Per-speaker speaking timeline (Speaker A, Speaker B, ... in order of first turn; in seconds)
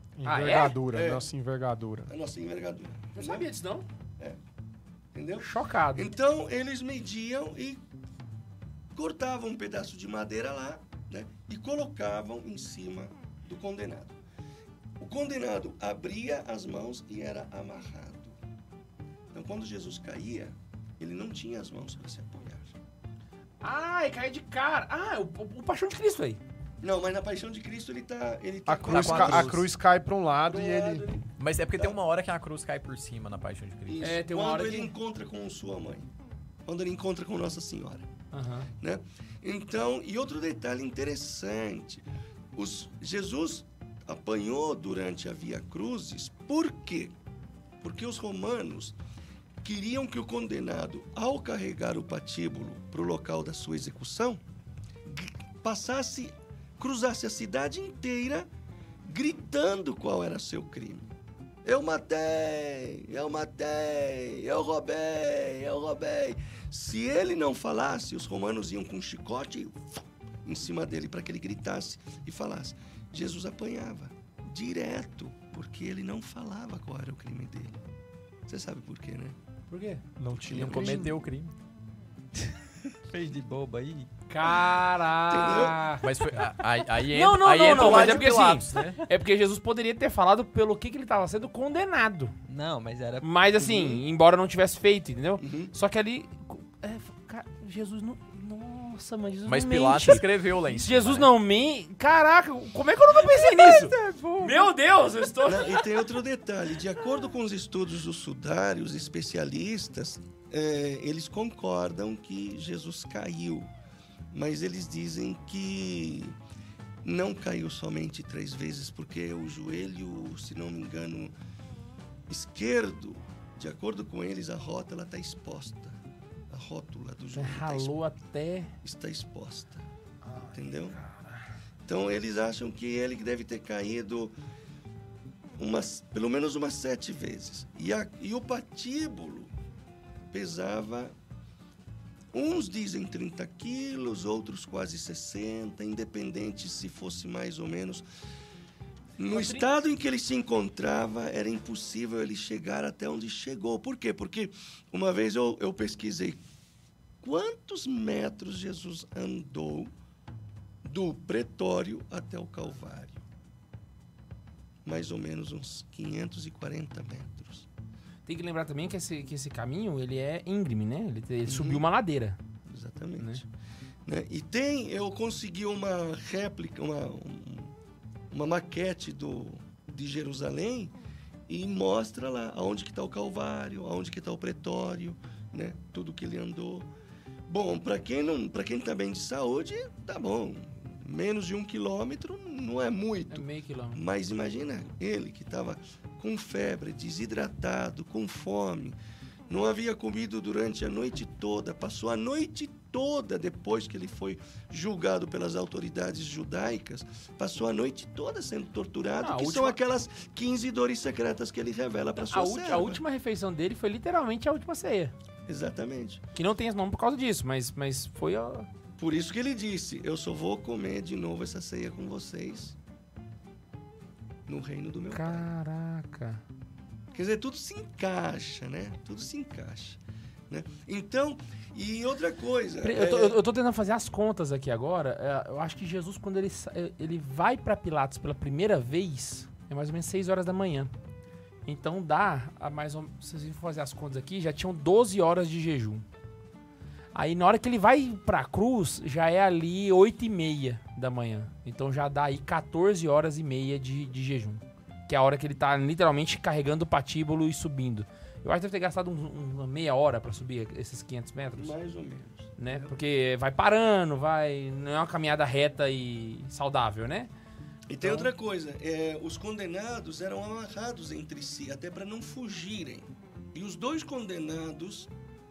Speaker A: 0.2-2.1, 28.7-31.1, 80.2-81.2
Speaker B: 0.2-0.8, 3.1-3.9, 5.4-6.1, 23.6-26.4, 34.0-34.9, 38.3-38.7, 79.7-80.0, 84.3-86.5, 87.1-92.3, 93.2-105.9, 127.3-128.7, 130.2-131.4, 149.3-149.7, 168.2-172.4, 173.2-173.4, 193.3-194.0, 209.2-209.8, 212.2-215.1, 216.3-218.7, 225.1-226.4, 232.8-240.9, 241.7-246.0, 247.1-261.7, 262.6-267.3, 268.0-268.3
Speaker C: 0.9-1.2, 2.1-3.5, 5.1-7.8, 8.9-14.2, 15.0-18.4, 19.3-22.7, 26.8-29.6, 30.5-31.2, 33.9-36.1, 36.6-38.1, 38.8-47.1, 47.8-49.0, 49.6-54.4, 55.0-58.5, 59.0-61.1, 61.6-77.8, 78.5-79.3, 85.3-85.8, 87.3-88.3, 93.6-94.0, 95.4-95.7, 105.4-113.7, 114.3-116.3, 117.0-121.3, 122.3-126.0, 126.5-127.9, 128.8-129.8, 130.5-131.0, 131.9-134.3, 135.6-139.5, 140.3-141.1, 142.3-148.0, 149.2-156.4, 157.2-159.9, 160.8-163.2, 164.8-167.7, 171.4-171.8, 172.7-173.5, 174.1-177.7, 178.3-180.9, 181.5-186.9, 187.5-199.0, 199.5-213.0, 215.5-216.2, 219.0-222.8, 224.5-225.5, 227.1-233.4, 261.6-262.8, 267.9-275.1
Speaker D: 28.9-29.6, 31.4-34.1, 80.5-81.5, 86.0-89.0, 99.5-101.3
Speaker E: 83.1-84.1, 92.5-93.3, 103.4-104.5